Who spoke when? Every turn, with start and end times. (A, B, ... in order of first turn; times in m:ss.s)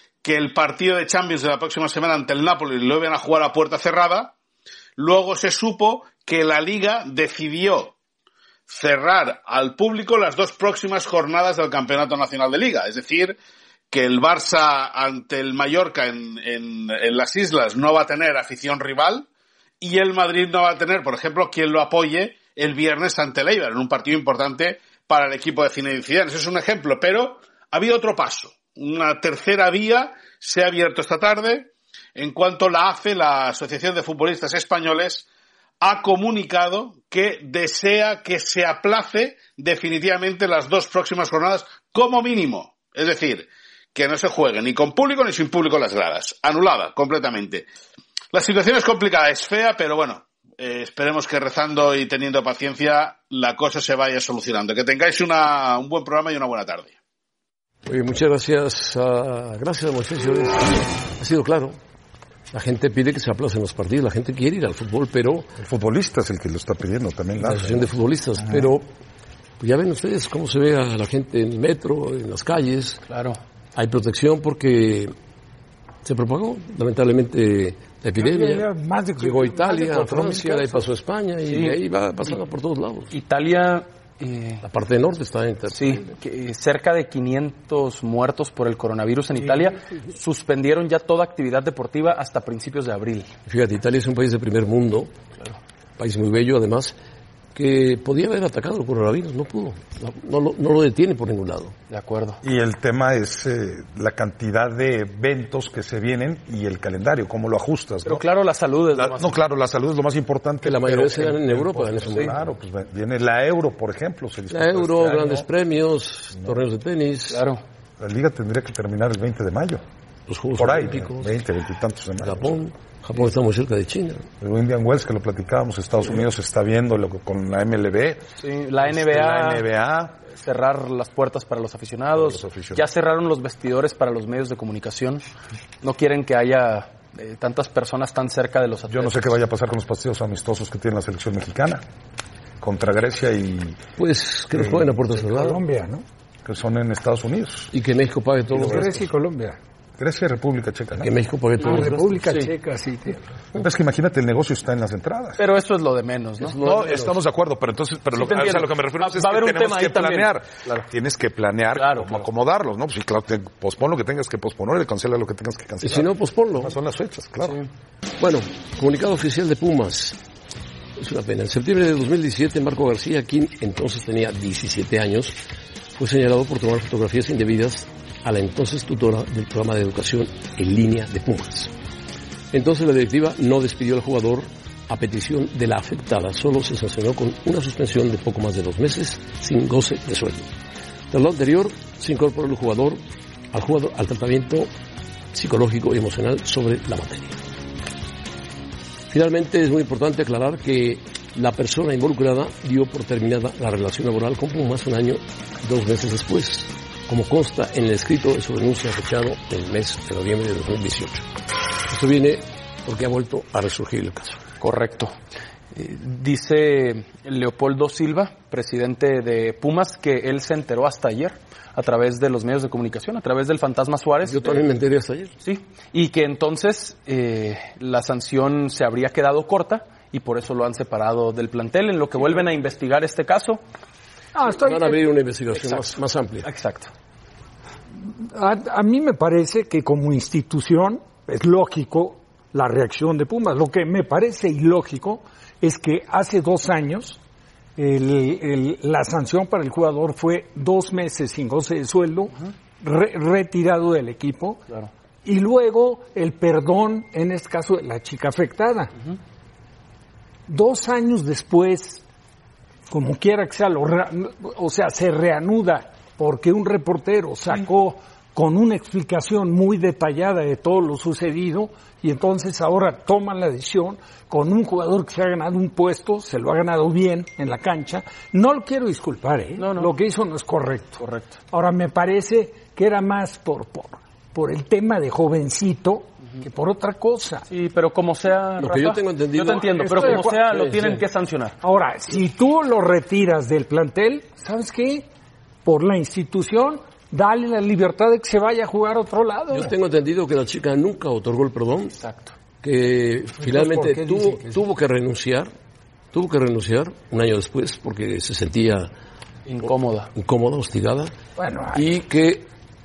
0:00.2-0:04.3 A
0:05.0-0:07.9 A
0:08.7-0:13.4 A
0:13.9-0:19.3 A
0:19.8-0:35.2 A
0:35.8-0:47.6 A
0:48.3-0:56.9 A
0:57.8-1:01.8 B
1:02.5-1:05.5 B
1:05.6-1:07.9 C
1:07.3-1:08.8 B
1:08.4-1:08.7 C
1:09.6-1:13.0 B
1:13.1-1:13.4 D
1:13.7-1:15.1 B
1:16.0-1:23.1 B
1:18.2-1:20.8 E
1:21.4-1:21.8 D
1:23.1-1:24.6 D
1:24.6-1:26.0 B
1:25.7-1:33.3 D
1:33.4-1:35.1 B
1:36.0-1:36.9 B
1:37.5-1:41.7 B
1:41.9-1:42.4 D
1:42.4-1:48.2 C
1:48.0-1:49.4 D
1:48.9-1:55.5 C
1:50.6-1:52.4 B
1:52.1-1:52.3 D
1:54.5-1:57.4 B
1:57.3-1:57.6 D
1:58.0-1:59.8 C
2:00.3-2:01.4 B
2:00.6-2:02.6 C
2:02.2-2:04.3 B
2:04.4-2:08.2 C
2:08.4-2:09.6 D
2:08.8-2:10.2 C
2:10.3-2:15.2 D
2:12.1-2:12.8 C
2:15.8-2:19.4 D
2:18.9-2:21.8 C
2:22.6-2:23.8 C
2:24.0-2:25.6 B
2:24.5-2:24.9 C
2:25.1-2:26.0 E
2:26.4-2:27.7 C
2:27.7-2:29.0 B
2:28.5-2:28.9 C
2:28.6-2:29.6 E
2:30.0-2:31.1 C
2:30.9-2:32.4 B
2:31.6-2:33.2 E
2:33.5-2:35.4 C
2:35.4-2:36.6 D
2:36.4-2:37.2 B
2:36.5-2:47.6 C
2:38.1-2:40.8 D
2:41.7-2:42.2 D
2:45.8-2:46.8 B
2:48.2-2:50.2 B
2:51.0-2:55.4 B
2:55.9-3:01.7 B
3:02.5-3:10.5 B
3:11.1-3:14.7 B
3:15.3-3:17.4 B
3:19.1-3:31.2 B
3:31.9-3:34.4 B
3:34.6-3:35.1 D
3:35.7-3:44.6 D
3:44.2-3:45.3 B
3:45.4-3:53.6 D
3:54.3-3:55.0 E
3:54.5-3:56.5 B
3:55.5-3:56.9 D
3:58.1-4:07.2 E
4:07.8-4:14.6 E
4:15.2-4:18.9 E
4:20.5-4:22.0 E
4:22.9-4:47.4 E
4:39.6-4:39.9 D
4:41.0-4:41.3 D
4:47.5-4:51.6 D
4:48.6-4:51.0 B
4:49.7-4:50.5 E
4:51.6-4:55.1 E
4:55.6-4:59.7 E
4:59.5-5:02.0 B
5:01.9-5:02.3 D
5:02.6-5:05.5 B
5:03.4-5:04.6 E
5:06.1-5:08.9 B
5:09.4-5:10.1 D
5:09.6-5:11.1 B
5:11.4-5:12.0 E
5:11.7-5:12.5 B